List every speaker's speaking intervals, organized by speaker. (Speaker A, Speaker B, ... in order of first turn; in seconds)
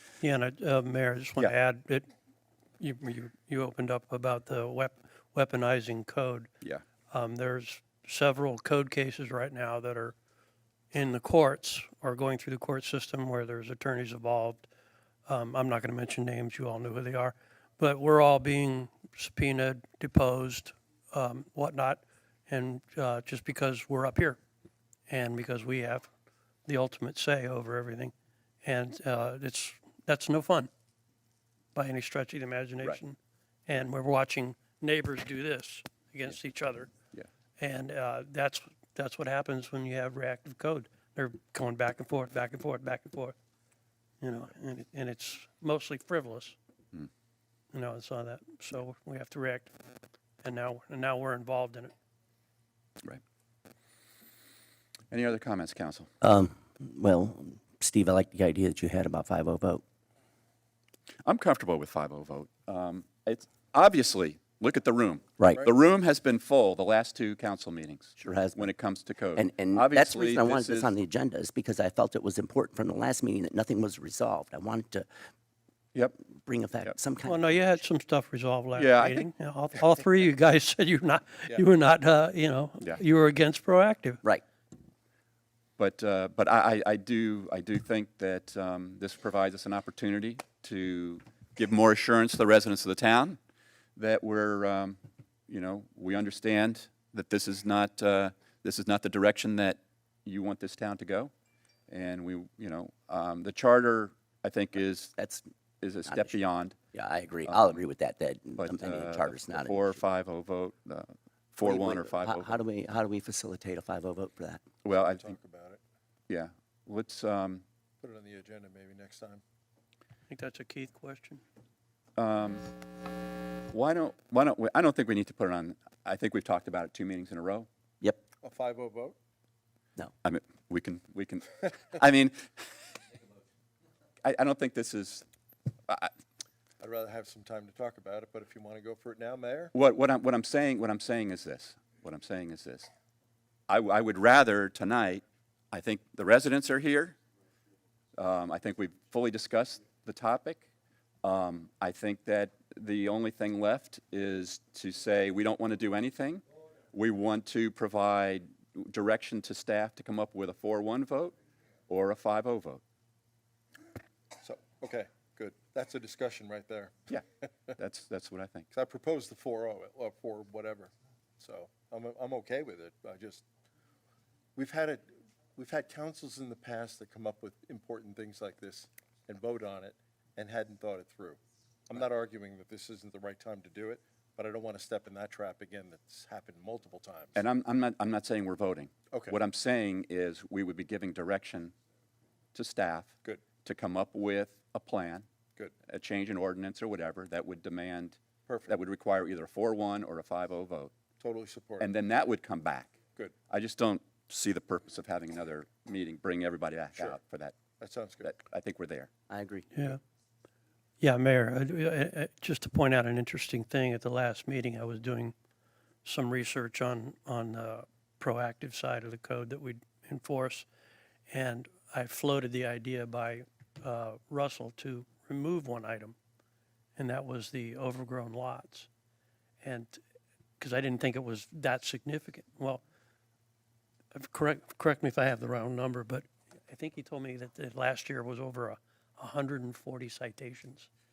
Speaker A: 0.2-2.1, 2.8-6.5, 7.1-10.1, 10.9-14.7, 15.3-24.4, 25.1-26.1, 26.6-30.7, 31.7-36.9, 37.6-43.3, 44.2-46.5, 47.7-49.7, 50.4-51.9, 77.2-84.2, 120.3-121.4, 209.7-210.0, 211.0-215.3, 216.0-220.7, 221.3-226.2, 226.9-228.9, 229.6-230.0, 230.6-232.8, 234.1-240.9
Speaker B: 55.1-56.1, 61.2-70.9, 78.8-79.2, 85.8-93.4, 94.0-101.3, 101.9-105.1, 105.8-106.8, 107.5-107.8, 108.6-112.6, 114.8-115.3, 116.3-117.6, 122.2-122.6, 123.7-127.7, 130.2-132.5, 134.2-135.2, 139.7-142.9, 143.7-147.2, 148.2-150.7, 151.2-161.3, 161.9-162.8, 167.8-168.7, 187.3-191.7, 192.5-195.2, 195.8-200.9, 201.8-202.9, 203.5-207.6, 208.2-209.1
Speaker C: 56.2-59.8, 65.4-65.7, 68.2-68.7, 69.3-75.1, 76.1-77.5, 105.2-105.4, 106.0-106.4, 106.9-110.0, 111.6-114.6, 209.3-209.7
Speaker D: 115.0-115.8, 118.0-119.4, 128.4-129.2, 136.8-139.7, 164.4-166.9, 168.7-173.4, 174.6-187.4, 189.1-189.4, 198.5-198.8, 201.2-201.9, 207.8-208.3